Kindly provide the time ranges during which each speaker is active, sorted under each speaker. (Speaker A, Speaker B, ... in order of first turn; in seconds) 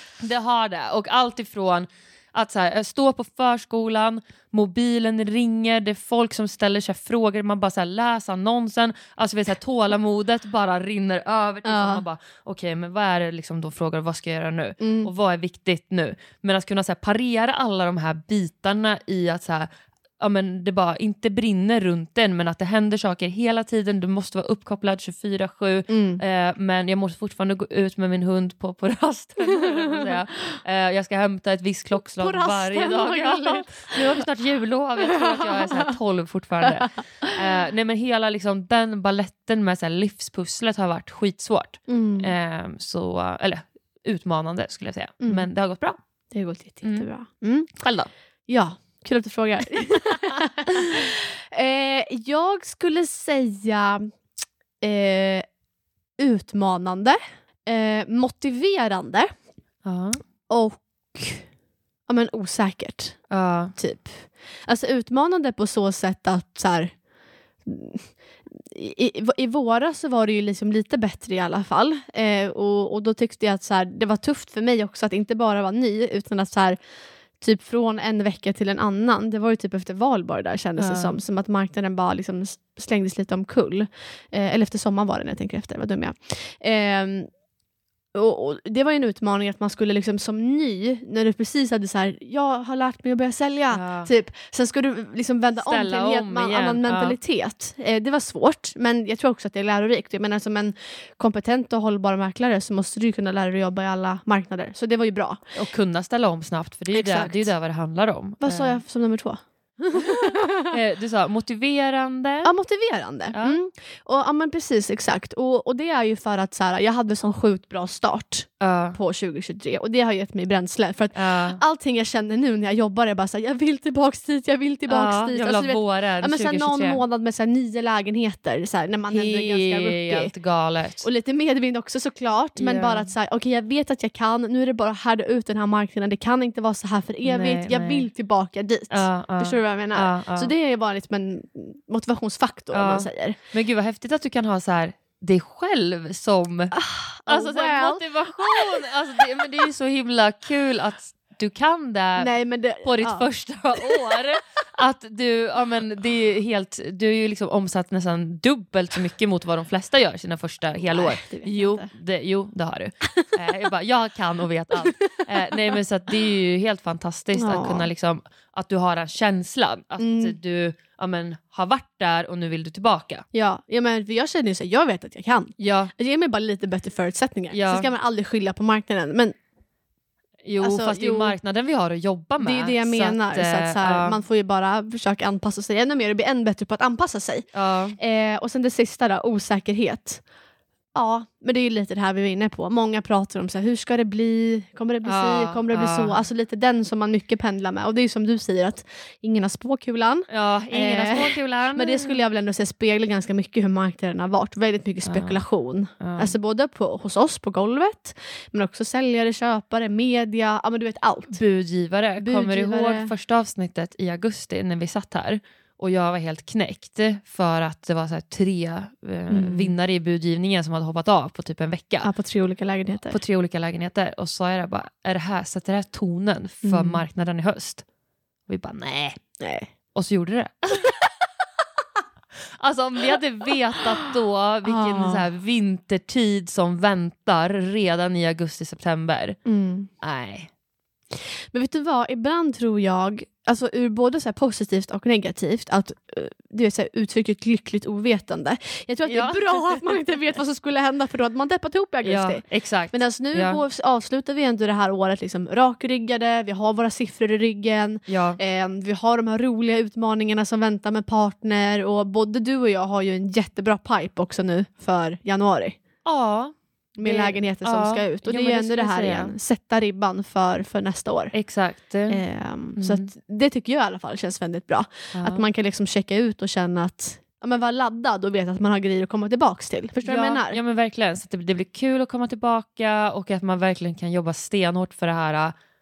Speaker A: 0.2-19.7, 20.2-46.0, 47.7-48.1, 59.8-60.2, 63.3-63.7, 80.8-81.2, 93.7-94.1, 95.6-97.2, 105.5-108.8, 110.1-112.5, 118.6-119.0, 121.1-121.6, 124.9-127.0, 129.1-131.1, 132.6-133.1, 137.2-138.1, 138.9-140.5, 142.7-146.8, 147.3-173.2, 175.6-175.9, 177.5-177.9, 180.4-184.2, 187.5-188.0, 195.0-196.2, 200.3-202.2, 205.1-205.4, 206.0-206.3, 211.3-222.1, 223.1-227.8, 228.5-229.2, 229.9-231.1, 232.6-239.4, 240.0-240.5, 249.1-249.8, 252.0-253.6, 258.1-258.4, 266.1-269.3, 271.3-272.2, 272.8-273.1, 275.1-275.4, 280.0-285.5
Speaker B: 11.6-12.0, 14.8-15.1, 25.9-26.2, 29.6-30.0, 32.2-34.2, 35.4-35.9, 36.7-37.4, 41.9-42.3, 45.2-45.5, 46.3-47.7, 48.5-54.1, 54.8-55.5, 56.2-59.3, 60.5-61.5, 62.1-67.0, 67.6-76.8, 77.4-87.3, 88.1-105.4, 106.9-107.5, 108.4-110.7, 112.4-130.3, 131.0-143.4, 146.7-148.9, 152.2-154.1, 160.8-161.9, 164.9-165.2, 167.3-167.9, 170.0-170.3, 173.3-179.3, 180.6-181.4, 182.4-190.2, 190.9-211.4, 212.2-213.1, 219.3-219.8, 222.0-223.2, 226.6-227.1, 229.4-229.7, 234.6-235.2, 239.5-239.9, 241.1-265.8, 267.0-271.4, 272.1-280.6